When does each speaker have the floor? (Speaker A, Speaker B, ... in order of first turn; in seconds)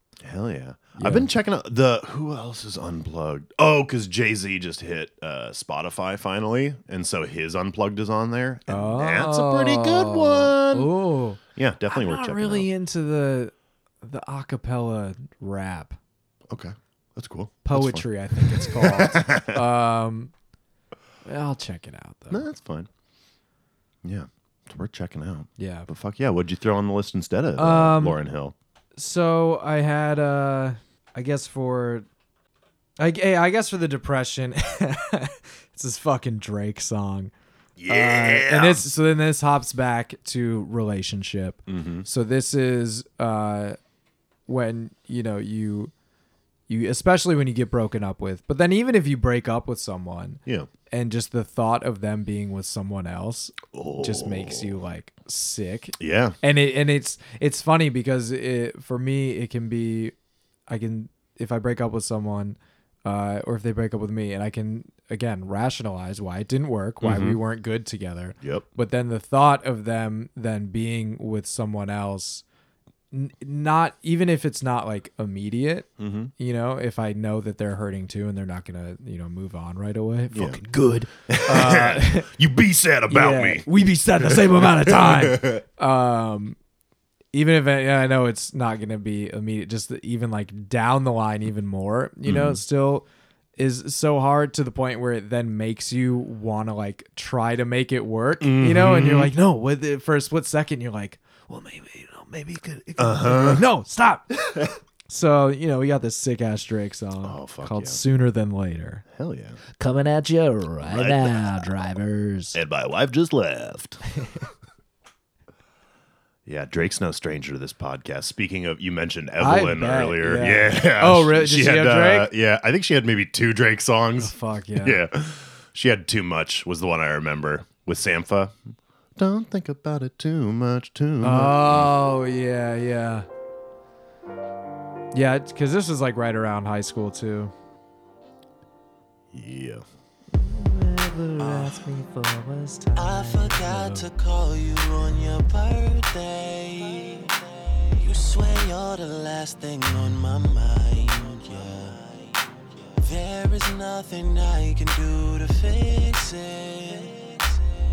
Speaker A: 0.2-10.9, 11.5-12.7, 16.5-19.6, 22.3-22.9, 24.0-28.5, 37.8-38.8, 41.7-42.1, 53.7-54.7, 56.0-56.4, 67.0-67.4, 76.0-76.3, 80.3-80.6, 81.2-83.7, 84.2-85.6, 92.2-92.6, 98.4-99.3, 103.0-103.7, 104.3-104.8, 107.2-108.0, 109.1-109.6, 110.8-111.7, 112.5-114.0, 116.5-128.6, 129.2-131.9, 139.3-139.8, 141.4-141.7
Speaker B: 1.0-1.3, 8.7-16.0, 17.6-20.3, 21.2-22.4, 25.6-25.9, 27.6-28.2, 29.0-32.0, 33.0-37.3, 37.9-43.8, 44.5-45.9, 46.7-60.1, 60.7-72.4, 73.1-82.3, 83.1-86.6, 87.3-93.0, 93.6-104.3, 105.1-109.0, 109.8-112.6, 114.2-114.5, 119.4-122.3, 124.2-125.0, 131.2-133.3, 135.1-137.5, 140.3-144.1
Speaker C: 143.3-147.1, 148.0-152.0, 153.1-157.2